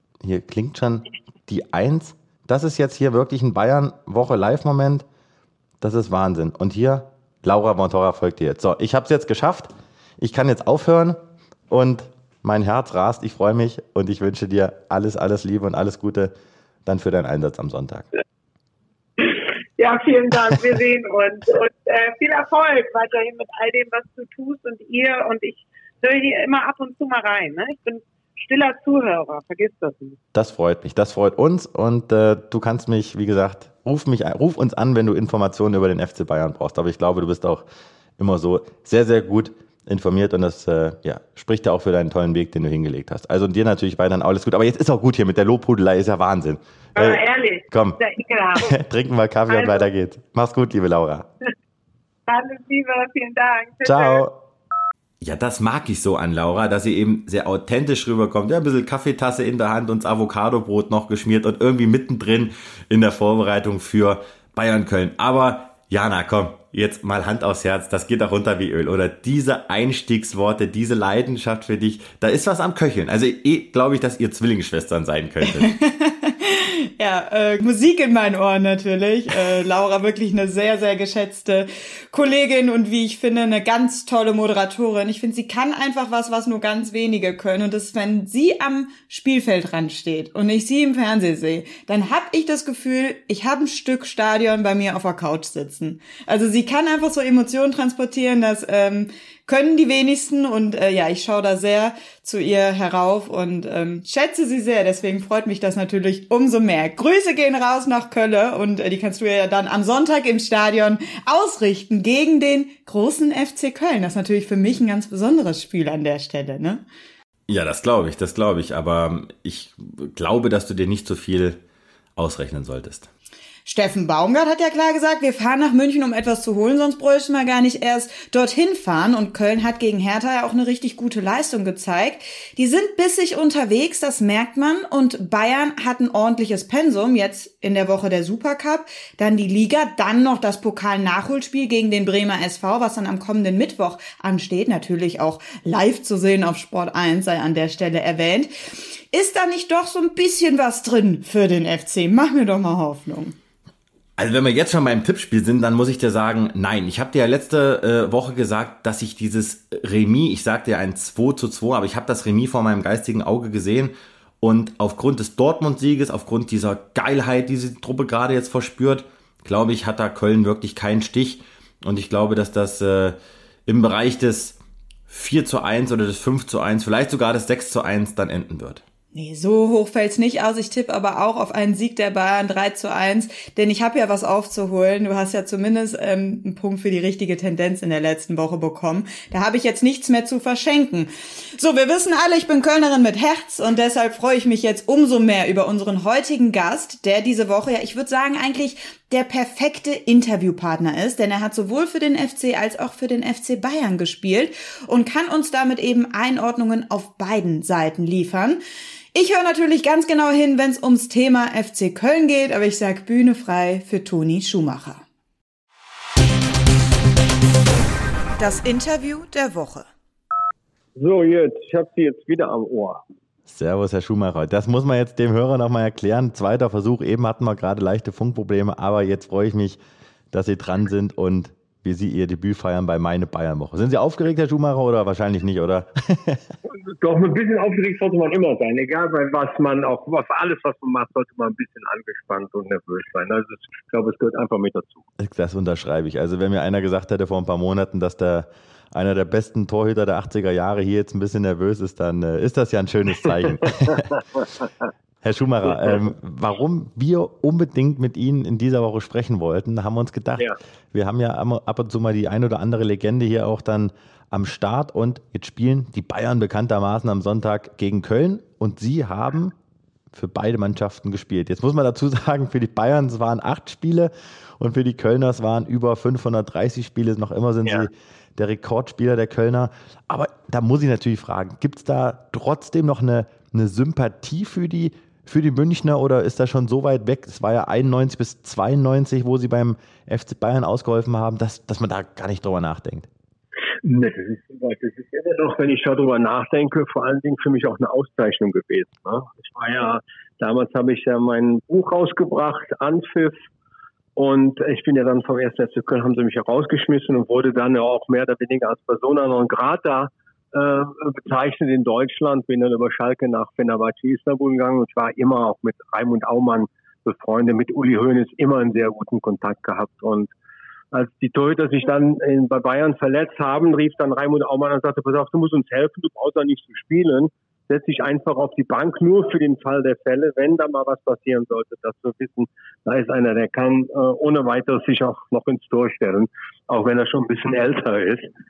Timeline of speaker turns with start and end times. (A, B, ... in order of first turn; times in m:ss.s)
0:00.2-0:05.0 A
0:05.8-0:11.2 A
0:11.7-0:16.3 A
0:16.8-0:18.1 A
0:19.2-0:30.2 B
0:30.3-0:37.6 A
0:38.2-0:48.0 A
0:47.0-0:48.7 B
0:48.6-0:51.3 A
0:49.5-0:49.8 B
0:52.3-0:54.2 B
0:53.8-0:54.3 A
0:55.2-1:15.7 A
1:15.6-1:56.8 C
1:57.5-2:01.6 A
2:02.2-2:03.1 A
2:03.6-2:28.5 C
2:29.1-2:33.4 C
2:34.2-2:58.8 A
2:59.1-3:28.6 C
3:29.1-3:35.0 C
3:38.4-3:39.9 C
3:41.0-3:43.0 D
3:43.5-3:49.8 A
3:50.3-3:56.4 A
3:56.7-4:05.0 D
4:05.2-4:14.1 A
4:13.7-4:14.8 D
4:15.2-4:29.5 A
4:30.1-4:53.1 A
4:53.8-5:03.4 D
5:04.2-5:20.3 D
5:20.9-5:38.3 D